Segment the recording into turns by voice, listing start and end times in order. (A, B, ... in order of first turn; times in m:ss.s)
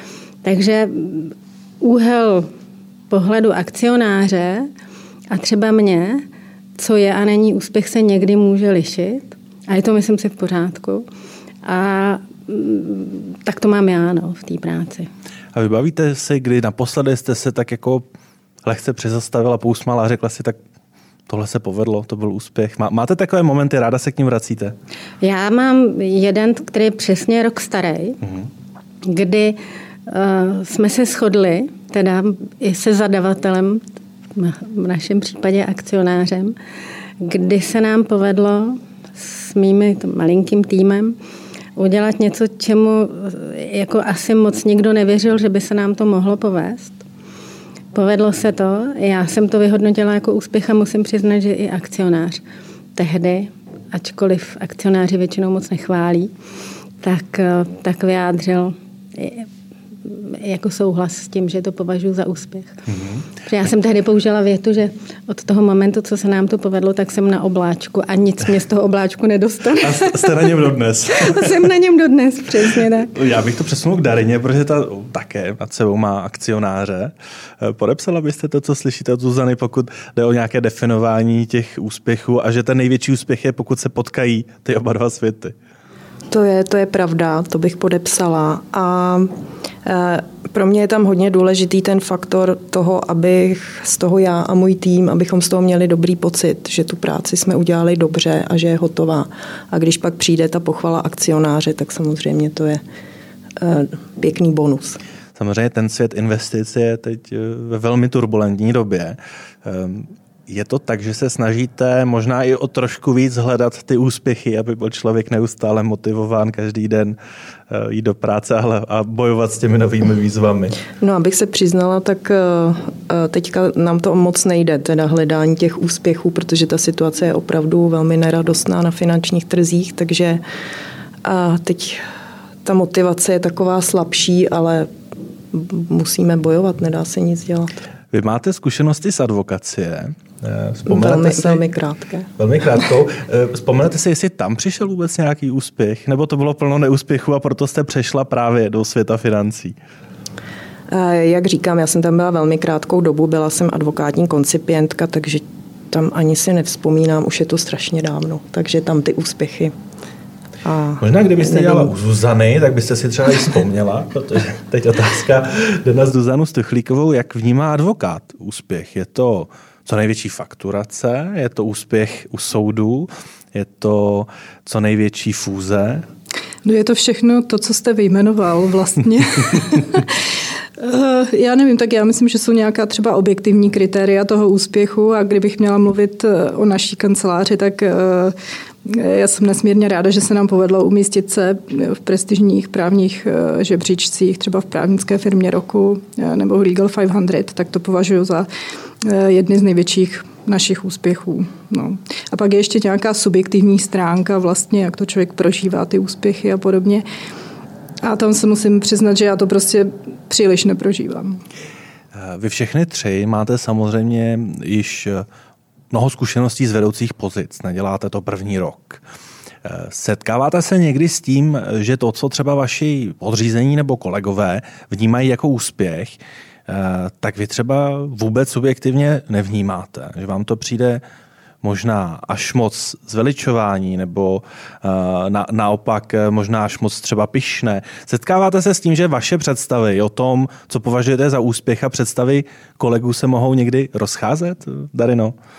0:00.4-0:02.5 A
0:03.1-0:04.7 A
0:05.3-0:06.2 A
0:06.8-0:11.0 A
0:11.6-0:15.1 A
0:15.5-0:18.1 B
0:18.6-0:20.6 B
0:21.3-0:24.7 B
0:25.2-0:28.2 A
0:29.0-0:33.8 A
0:34.4-0:36.6 A
0:37.2-0:41.2 A
0:41.8-0:47.0 A
0:47.9-0:52.4 A
0:53.0-0:56.3 A
0:57.0-0:59.5 A
1:00.0-1:02.8 A
1:02.9-1:03.3 B
1:03.4-1:10.6 A
1:09.8-1:11.7 B
1:11.1-1:13.1 A
1:13.1-1:25.6 B
1:26.3-1:29.3 C
1:29.8-1:42.8 C
1:43.6-1:45.0 C
1:45.4-1:57.2 B
1:57.7-2:00.8 B
2:01.0-2:10.4 C
2:11.2-2:12.0 C
2:12.6-2:14.9 C
2:15.5-2:17.8 C
2:18.1-2:21.6 B
2:20.9-2:22.3 C
2:22.4-2:29.8 B
2:30.9-2:39.7 C
2:40.6-2:41.9 C
2:41.0-2:56.1 B
2:56.6-3:00.2 D
3:00.8-3:18.5 D
3:19.0-3:27.0 D
3:28.0-3:31.4 D
3:32.1-3:35.3 B
3:35.9-3:39.0 B
3:39.6-3:51.0 B
3:51.6-4:05.3 B